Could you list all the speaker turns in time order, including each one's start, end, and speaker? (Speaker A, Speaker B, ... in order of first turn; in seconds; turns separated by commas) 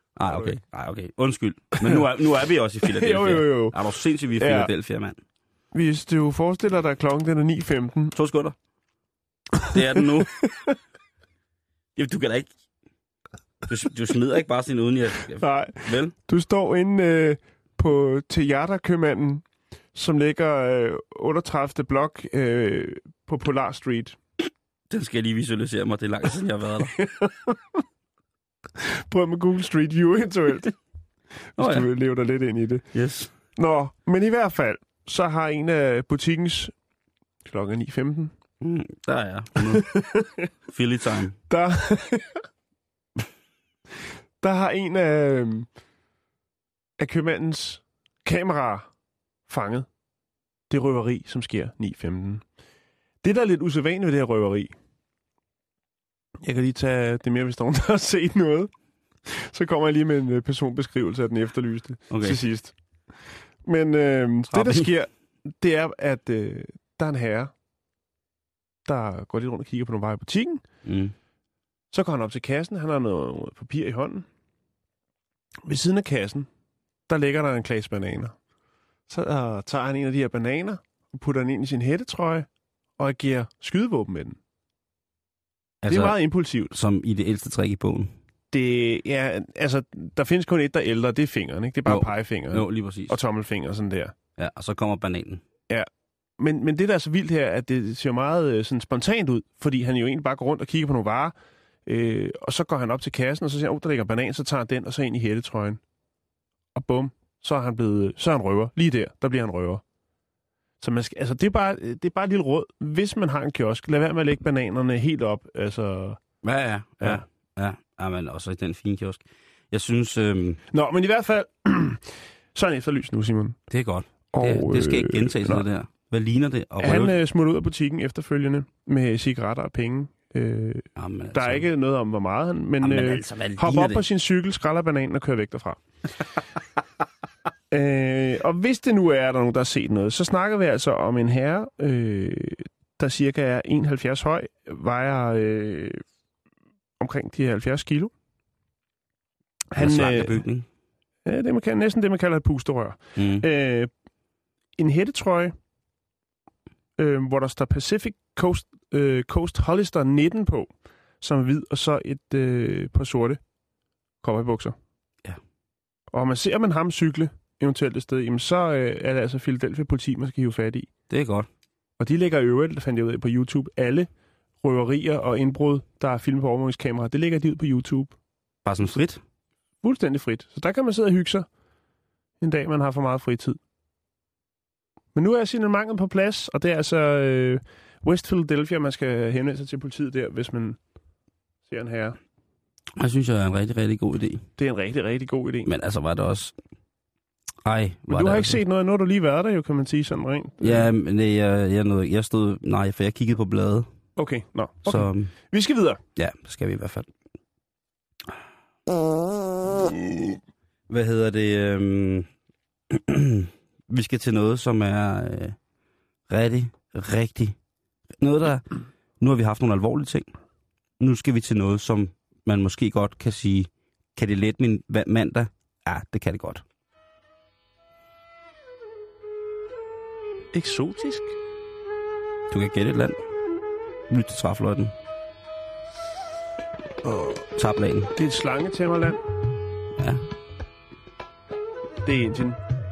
Speaker A: 0.1-5.2, Speaker B: 0.3-0.5, Speaker B: 2.9-3.8, Speaker B: 4.4-4.7, Speaker B: 5.7-8.1, Speaker A: 8.1-8.6, Speaker A: 9.7-10.4, Speaker B: 10.4-10.8, Speaker A: 11.9-12.5, Speaker A: 13.7-16.1, Speaker B: 15.4-24.2, Speaker A: 24.9-26.9, Speaker B: 27.0-27.8, Speaker B: 28.8-30.8, Speaker B: 31.6-32.9, Speaker A: 31.6-31.9, Speaker A: 32.9-33.3, Speaker B: 33.5-36.7, Speaker B: 37.4-38.3, Speaker A: 38.6-40.1, Speaker B: 39.7-40.5, Speaker A: 40.7-41.4, Speaker B: 41.5-42.4, Speaker B: 44.4-45.7, Speaker B: 47.0-48.9, Speaker B: 49.5-49.9, Speaker B: 50.7-52.4, Speaker B: 53.2-54.7, Speaker B: 56.4-58.7, Speaker B: 59.2-67.5, Speaker A: 62.1-62.4, Speaker A: 64.5-64.9, Speaker B: 68.8-70.6, Speaker A: 70.8-71.1, Speaker B: 71.9-74.3, Speaker B: 75.7-76.5, Speaker B: 77.1-78.3, Speaker B: 79.1-84.4, Speaker A: 85.8-88.1, Speaker B: 85.9-86.7, Speaker B: 88.5-94.1, Speaker A: 91.8-93.2, Speaker A: 94.4-95.4, Speaker B: 95.7-101.3, Speaker B: 101.8-105.8, Speaker B: 106.7-109.8, Speaker B: 110.8-116.2, Speaker A: 116.4-120.6, Speaker B: 120.7-123.6, Speaker A: 123.7-127.2, Speaker B: 124.3-125.6, Speaker B: 126.8-135.8, Speaker A: 130.9-131.7, Speaker A: 132.8-134.0, Speaker B: 137.7-146.0, Speaker B: 147.0-148.1, Speaker B: 149.7-150.4, Speaker A: 149.8-150.7, Speaker B: 151.2-153.9, Speaker A: 153.2-153.4, Speaker B: 154.8-155.5, Speaker B: 157.0-163.4, Speaker B: 164.2-164.7, Speaker B: 166.1-170.9, Speaker A: 171.1-171.5, Speaker B: 172.0-174.1, Speaker B: 174.6-178.1, Speaker A: 178.6-179.2, Speaker B: 179.8-181.5, Speaker B: 182.4-183.6, Speaker B: 185.1-190.8, Speaker B: 191.7-192.2, Speaker A: 192.9-194.4, Speaker B: 194.6-195.7, Speaker A: 195.6-196.5, Speaker A: 197.6-198.6, Speaker B: 198.1-200.9, Speaker A: 200.6-203.9, Speaker B: 204.2-206.0, Speaker A: 204.8-205.3, Speaker A: 206.2-207.1, Speaker A: 210.9-212.3, Speaker A: 212.9-215.6, Speaker A: 216.3-217.6, Speaker A: 218.2-218.7, Speaker A: 219.2-220.3, Speaker A: 221.0-226.6, Speaker B: 230.5-231.3, Speaker A: 232.5-233.2, Speaker A: 234.1-234.9, Speaker A: 237.5-238.1, Speaker B: 238.1-239.2, Speaker A: 240.0-240.2, Speaker B: 242.0-242.6